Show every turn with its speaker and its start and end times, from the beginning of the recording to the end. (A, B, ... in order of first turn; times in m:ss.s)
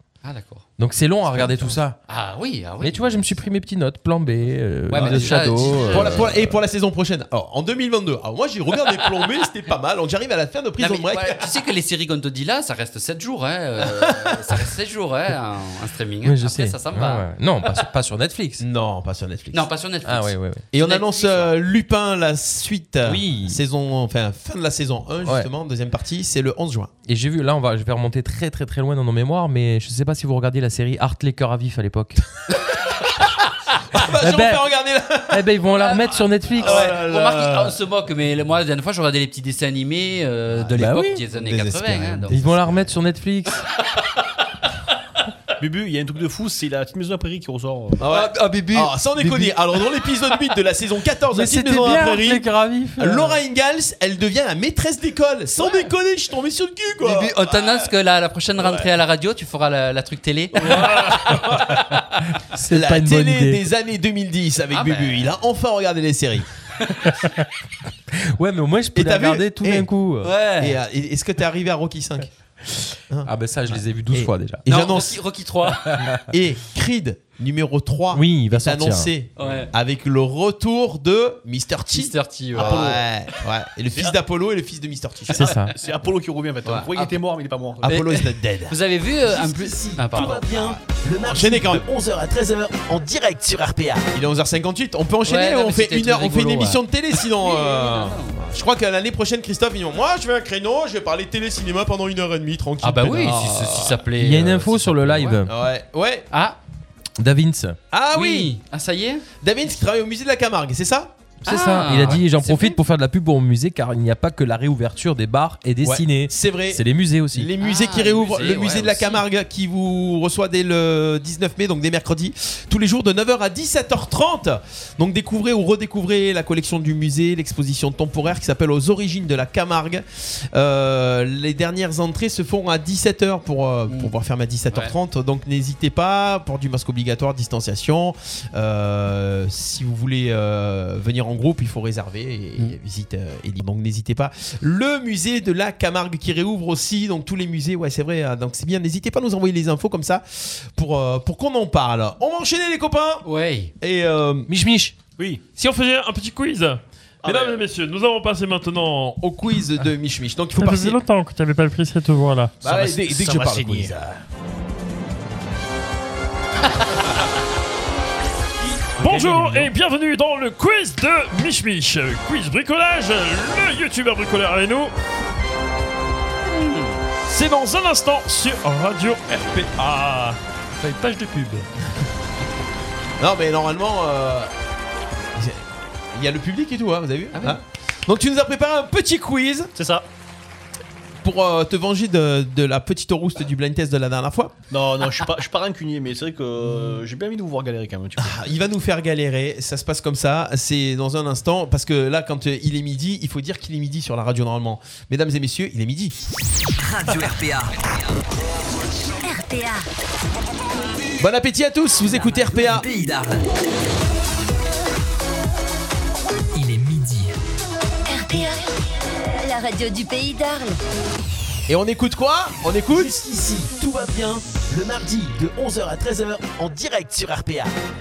0:00.2-0:00.7 A
0:00.8-0:02.0 B
0:01.4-0:03.3 A
0:02.8-0:06.6 B
0:04.9-0:06.3 A
0:04.9-0:11.5 C
0:10.8-0:17.8 A
0:14.0-0:14.6 C
0:16.2-0:18.6 B
0:18.6-0:19.7 C
0:19.5-0:21.5 A
0:20.0-0:20.6 B
0:20.7-0:26.9 C
0:23.0-0:23.6 B
0:25.2-0:25.5 B
0:27.0-0:32.2 B
0:33.9-0:35.4 C
0:33.9-0:34.7 B
0:35.3-0:36.8 B
0:35.8-0:36.1 A
0:36.6-0:37.0 C
0:36.6-0:37.8 D
0:37.1-0:42.5 A
0:40.6-0:42.6 C
0:40.7-0:41.2 B
0:42.3-0:43.7 B
0:45.6-0:48.0 D
0:48.0-0:52.5 C
0:48.1-0:49.6 B
0:51.3-0:53.4 B
0:53.0-0:57.9 C
0:57.0-1:01.2 A
0:58.6-0:58.9 C
1:00.9-1:01.6 B
1:01.0-1:01.8 C
1:02.4-1:03.6 B
1:02.7-1:06.5 C
1:04.7-1:05.3 A
1:06.8-1:07.1 A
1:08.1-1:10.3 B
1:08.9-1:09.9 C
1:10.2-1:10.8 A
1:10.6-1:12.3 C
1:13.1-1:15.2 C
1:13.2-1:14.6 B
1:14.7-1:16.0 A
1:15.9-1:16.2 B
1:16.3-1:25.5 C
1:18.1-1:19.1 B
1:19.4-1:19.7 A
1:21.9-1:23.0 A
1:25.3-1:25.7 B
1:25.7-1:27.9 D
1:26.6-1:27.2 A
1:27.8-1:43.9 C
1:27.8-1:30.8 A
1:35.2-1:38.4 A
1:42.8-1:45.4 A
1:44.1-1:45.5 B
1:45.4-1:46.3 C
1:46.3-1:46.6 A
1:47.2-1:47.8 B
1:47.9-1:48.5 C
1:48.1-1:49.2 A
1:49.4-1:51.1 C
1:51.4-1:57.5 B
1:51.4-1:52.8 A
1:55.8-2:33.2 C
1:57.6-1:59.2 A
2:33.2-2:33.7 A
2:33.8-2:34.5 C
2:34.5-2:34.9 B
2:35.6-2:39.3 E
2:37.2-2:37.6 D
2:39.2-2:41.0 C
2:40.5-2:42.6 E
2:42.6-2:44.0 D
2:42.6-2:44.2 C
2:49.0-2:54.9 E
2:49.1-2:49.7 B
2:56.5-2:57.0 A
2:57.3-3:01.7 E
3:03.2-3:04.5 C
3:05.4-3:09.7 C
3:07.3-3:07.6 A
3:09.8-3:10.0 D
3:11.2-3:14.5 C
3:14.7-3:18.5 D
3:18.2-3:26.2 C
3:26.8-3:27.7 F
3:29.2-3:29.8 G
3:31.2-3:32.8 C
3:32.4-3:33.5 F
3:36.5-3:37.3 F
3:38.1-3:38.6 G
3:39.3-3:40.8 G
3:41.7-3:43.3 C
3:44.8-3:47.5 C